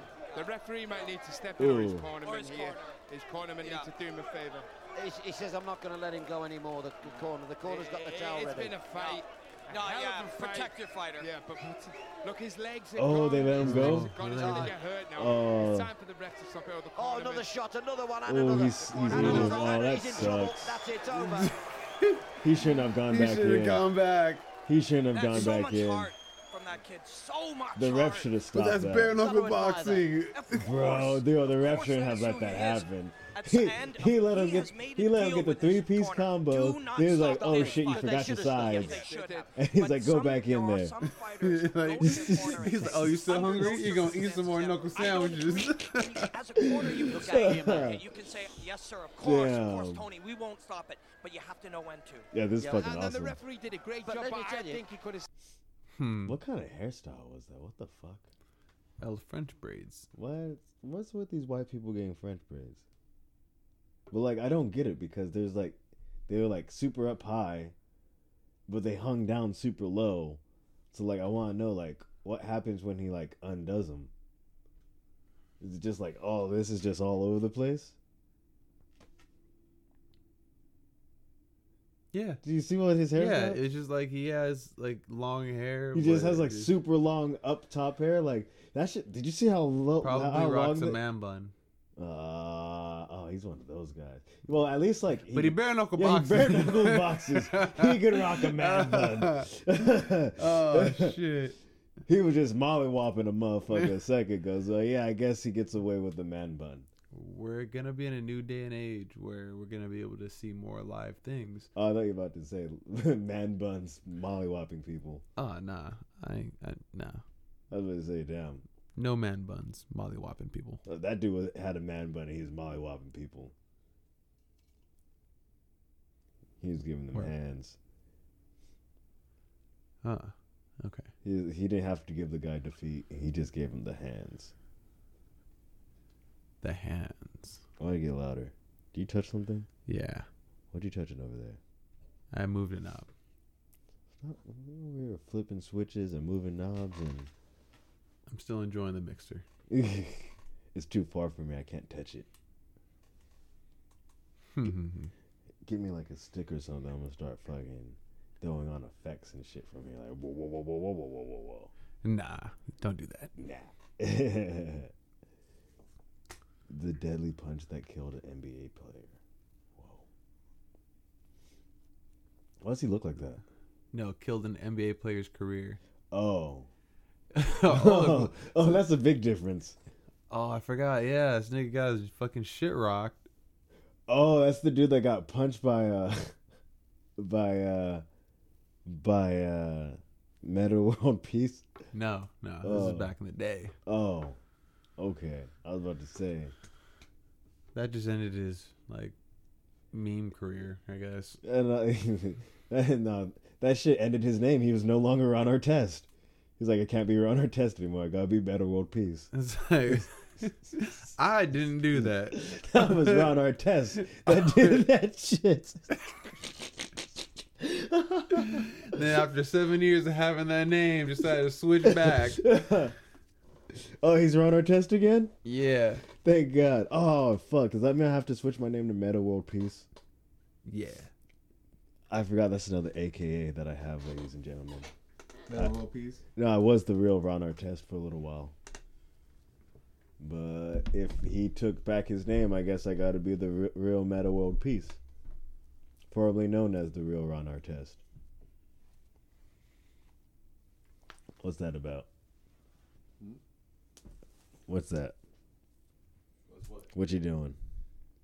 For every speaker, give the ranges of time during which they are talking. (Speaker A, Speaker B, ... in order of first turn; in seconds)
Speaker A: 0.3-1.2, 2.2-3.0, 3.6-3.9, 7.9-11.3, 19.4-19.8, 25.1-28.4, 30.3-52.3
Speaker B: 0.3-4.7, 7.7-17.5, 38.9-39.6, 52.6-55.3
Speaker C: 1.6-2.1, 12.9-14.2, 15.1-15.9, 18.2-20.8, 22.4-23.9, 24.7-26.1, 27.8-29.2, 30.5-39.0, 39.5-41.0, 42.0-43.1, 46.6-48.1, 49.2-50.1, 52.3-53.4, 56.3-58.3, 60.1-62.8, 64.1-67.8, 68.7-70.4, 70.9-74.1, 75.6-78.0, 82.4-83.6, 85.9-91.0, 92.0-101.2, 102.1-106.9, 111.8-115.2, 117.7-118.6, 120.8-123.5, 126.6-127.8, 131.2-134.5, 137.8-139.7, 140.7-141.6, 144.2-147.3, 149.7-152.3, 155.7-161.7, 163.4-164.9, 166.7-169.2, 169.8-170.1, 172.6-173.4, 176.1-176.7, 177.7-179.8, 184.1-186.4, 187.2-188.0, 188.8-191.7, 192.6-193.1, 193.9-194.4, 195.0-196.5, 201.4-209.3, 211.9-216.0, 217.6-219.0, 221.8-222.9, 223.7-225.3, 226.2-229.9, 232.1-234.9, 235.5-235.8, 236.3-238.6, 240.2-245.0, 246.1-248.0, 251.4-252.1, 254.7-255.2, 256.9-257.6
Speaker D: 5.0-8.8, 16.9-21.6, 29.1-30.1, 37.1-39.4, 47.2-47.9, 54.0-54.9
Speaker E: 13.6-14.8, 19.1-19.7, 21.1-22.3, 23.1-24.5, 28.5-30.7, 41.1-46.3, 55.9-56.4, 59.0-60.1, 82.1-82.4, 83.2-86.8, 90.0-91.5, 95.3-99.5, 100.4-101.6, 107.1-111.7, 115.4-117.2, 119.0-120.8, 130.0-131.1, 136.6-137.6, 139.9-140.3, 142.3-143.1, 148.3-149.4, 154.6-155.1, 162.0-163.3, 173.9-175.8, 177.3-178.8, 180.3-183.3, 191.9-193.8, 197.7-199.2, 199.9-201.4, 209.3-213.3, 214.1-214.8, 218.5-222.4, 225.4-226.1, 230.7-231.1, 235.5-236.2, 256.5-256.9